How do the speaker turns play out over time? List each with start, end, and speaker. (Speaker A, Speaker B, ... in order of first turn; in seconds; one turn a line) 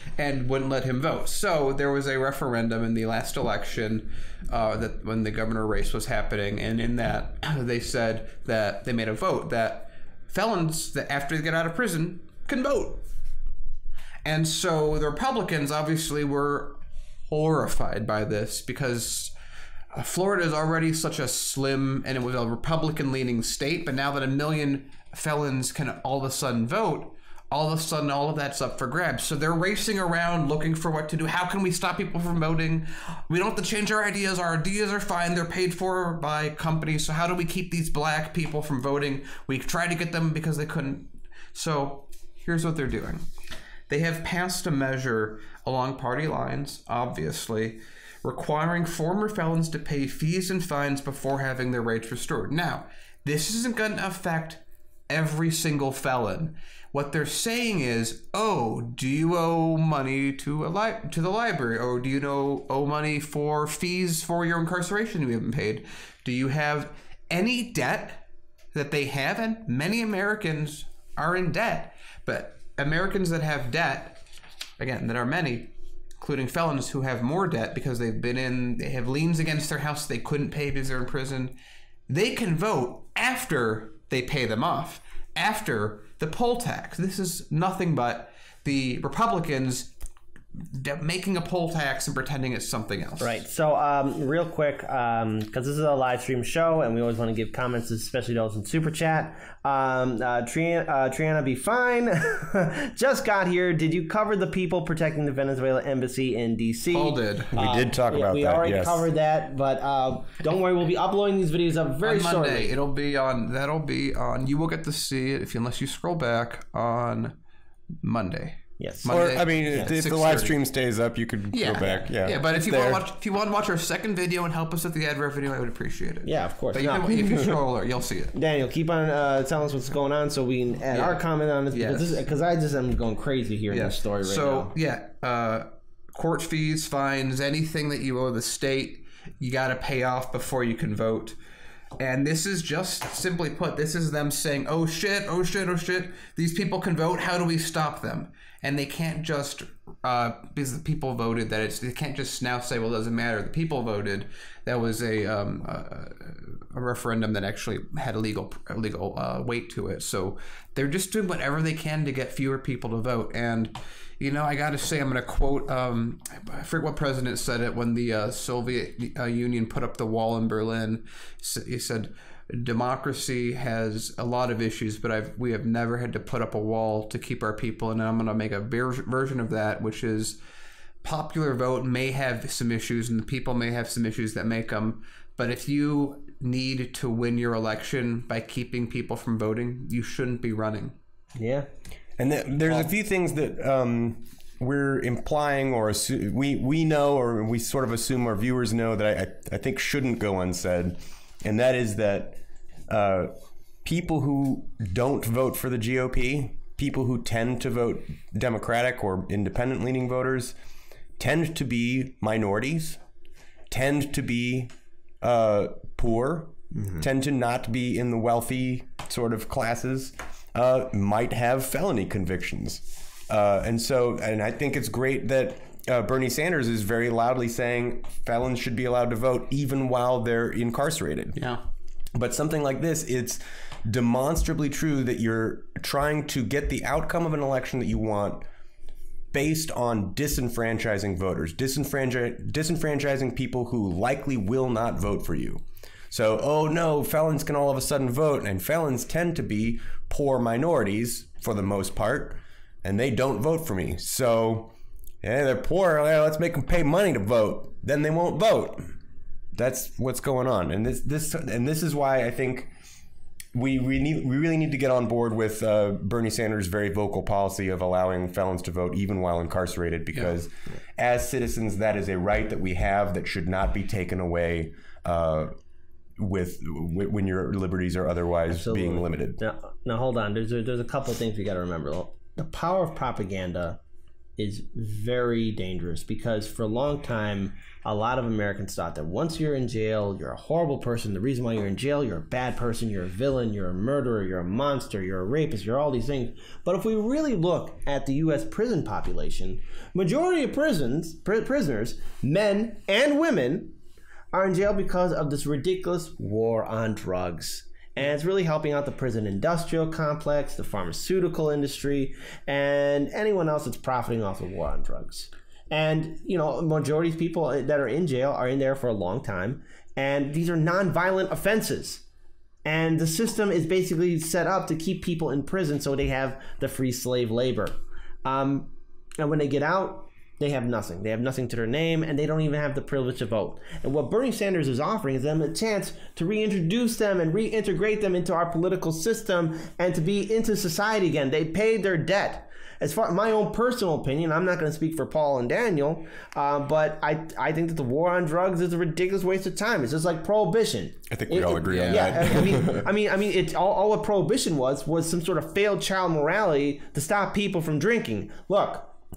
Speaker A: 0.2-13.0
Speaker A: 14.2-19.3
Speaker A: 19.9-43.2
Speaker A: 43.9-74.2
Speaker A: 74.8-81.5
Speaker A: 82.1-89.9
Speaker A: 90.7-93.4
Speaker B: 93.2-112.8
Speaker A: 106.9-107.5
Speaker C: 107.5-109.0
Speaker A: 112.0-117.3
Speaker A: 118.0-120.6
Speaker B: 118.8-119.9
Speaker C: 119.1-123.0
Speaker A: 121.5-128.3
Speaker B: 126.2-127.6
Speaker B: 128.3-134.7
Speaker A: 130.9-132.2
Speaker A: 133.7-141.4
Speaker A: 142.0-180.4
Speaker A: 181.0-190.9
Speaker B: 191.4-191.7
Speaker C: 192.2-203.3
Speaker C: 203.8-210.6
Speaker C: 211.2-213.0
Speaker C: 213.7-231.4
Speaker B: 216.7-217.0
Speaker A: 231.3-231.6
Speaker C: 232.1-238.4
Speaker C: 239.3-258.9
Speaker C: 259.5-262.7
Speaker C: 263.5-275.5
Speaker C: 276.2-279.4
Speaker B: 278.5-283.8
Speaker B: 284.4-303.8
Speaker B: 304.3-322.0
Speaker B: 322.6-358.9
Speaker C: 351.1-352.9
Speaker A: 351.6-352.5